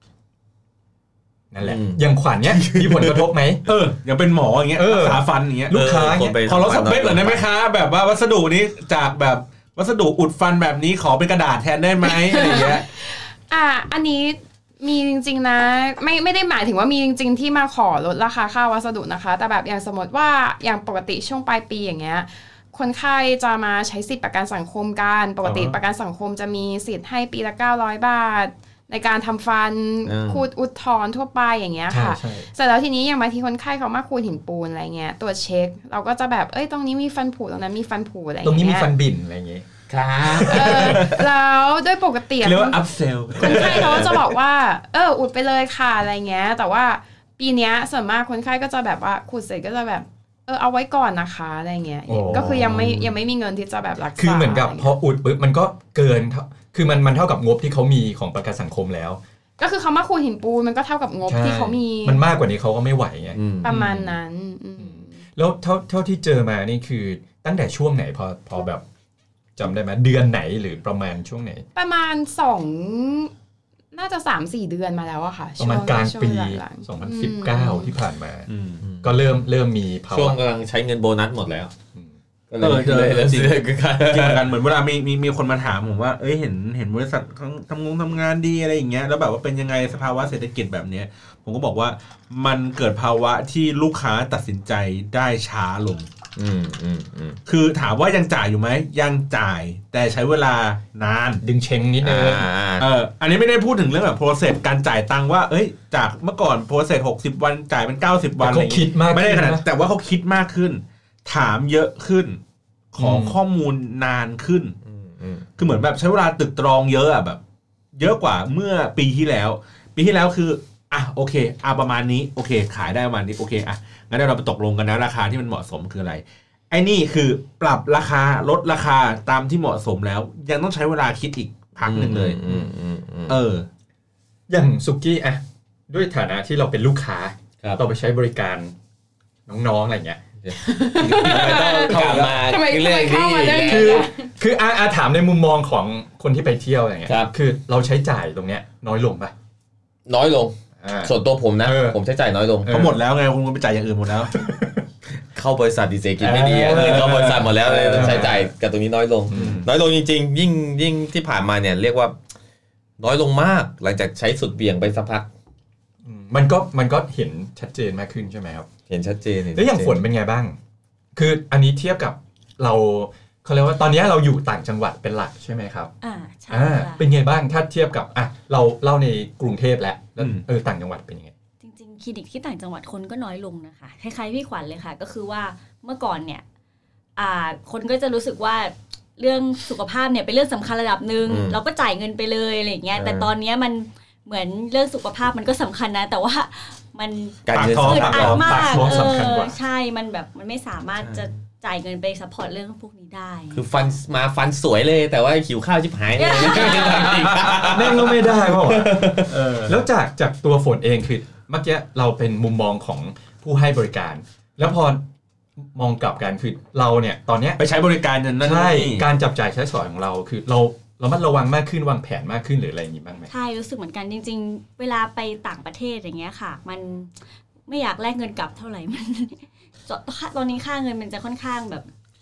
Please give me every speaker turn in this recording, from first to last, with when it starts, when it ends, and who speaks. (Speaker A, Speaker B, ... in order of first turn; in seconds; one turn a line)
Speaker A: 1.5-3.7
Speaker B: 1.6-2.0
Speaker B: 2.5-3.2
Speaker C: 3.6-12.8
Speaker A: 4.8-6.4
Speaker B: 5.7-7.4
Speaker D: 12.0-38.9
Speaker A: 25.4-25.8
Speaker B: 30.0-30.4
Speaker A: 31.9-32.5
Speaker A: 38.4-39.7
Speaker B: 39.9-41.0
Speaker A: 40.2-41.0
Speaker D: 40.4-42.8
Speaker C: 40.8-41.2
Speaker C: 42.4-44.3
Speaker D: 43.4-54.9
Speaker B: 43.4-44.1
Speaker A: 52.1-53.2
Speaker A: 54.2-59.2
Speaker D: 59.6-62.2
Speaker A: 61.3-64.2
Speaker B: 63.3-63.8
Speaker D: 63.6-65.2
Speaker A: 64.8-68.8
Speaker A: 69.6-71.6
Speaker D: 71.7-73.3
Speaker D: 73.9-77.9
Speaker A: 75.6-78.5
Speaker C: 78.5-78.8
Speaker B: 78.8-79.2
Speaker A: 79.0-80.4
Speaker B: 80.1-81.7
Speaker B: 82.5-84.4
Speaker C: 82.6-96.1
Speaker B: 96.3-97.4
Speaker C: 97.5-101.4
Speaker A: 101.4-102.5
Speaker B: 102.0-102.9
Speaker C: 102.8-112.4
Speaker A: 108.4-109.6
Speaker C: 112.9-114.8
Speaker A: 113.0-113.3
Speaker B: 114.8-115.5
Speaker C: 115.6-117.4
Speaker C: 117.9-132.7
Speaker B: 131.8-133.4
Speaker C: 133.3-133.7
Speaker A: 134.5-138.7
Speaker A: 139.5-140.2
Speaker B: 140.4-144.1
Speaker D: 140.6-144.3
Speaker C: 141.0-142.4
Speaker A: 142.0-142.3
Speaker A: 143.7-149.3
Speaker B: 147.1-147.3
Speaker B: 150.1-152.7
Speaker A: 150.8-152.0
Speaker A: 152.6-152.9
Speaker C: 152.7-154.3
Speaker A: 154.3-154.8
Speaker B: 155.3-162.2
Speaker C: 156.2-158.4
Speaker A: 156.2-157.3
Speaker A: 157.9-158.5
Speaker A: 159.3-159.7
Speaker C: 159.3-159.7
Speaker B: 163.0-165.3
Speaker A: 166.0-168.7
Speaker B: 168.9-170.0
Speaker A: 169.5-170.6
Speaker A: 171.2-175.9
Speaker E: 176.0-177.0
Speaker A: 176.5-181.3
Speaker C: 180.2-180.4
Speaker E: 181.6-186.4
Speaker E: 187.2-203.7
Speaker B: 191.2-191.6
Speaker B: 192.9-193.3
Speaker B: 197.4-198.9
Speaker C: 197.5-198.9
Speaker A: 197.9-199.5
Speaker B: 201.0-201.3
Speaker B: 203.5-209.3
Speaker E: 206.1-207.5
Speaker C: 206.9-207.7
Speaker A: 207.6-215.0
Speaker C: 209.3-209.8
Speaker A: 215.7-217.6
Speaker C: 217.6-219.1
Speaker A: 218.4-223.3
Speaker E: 223.3-227.1
Speaker E: 227.7-231.9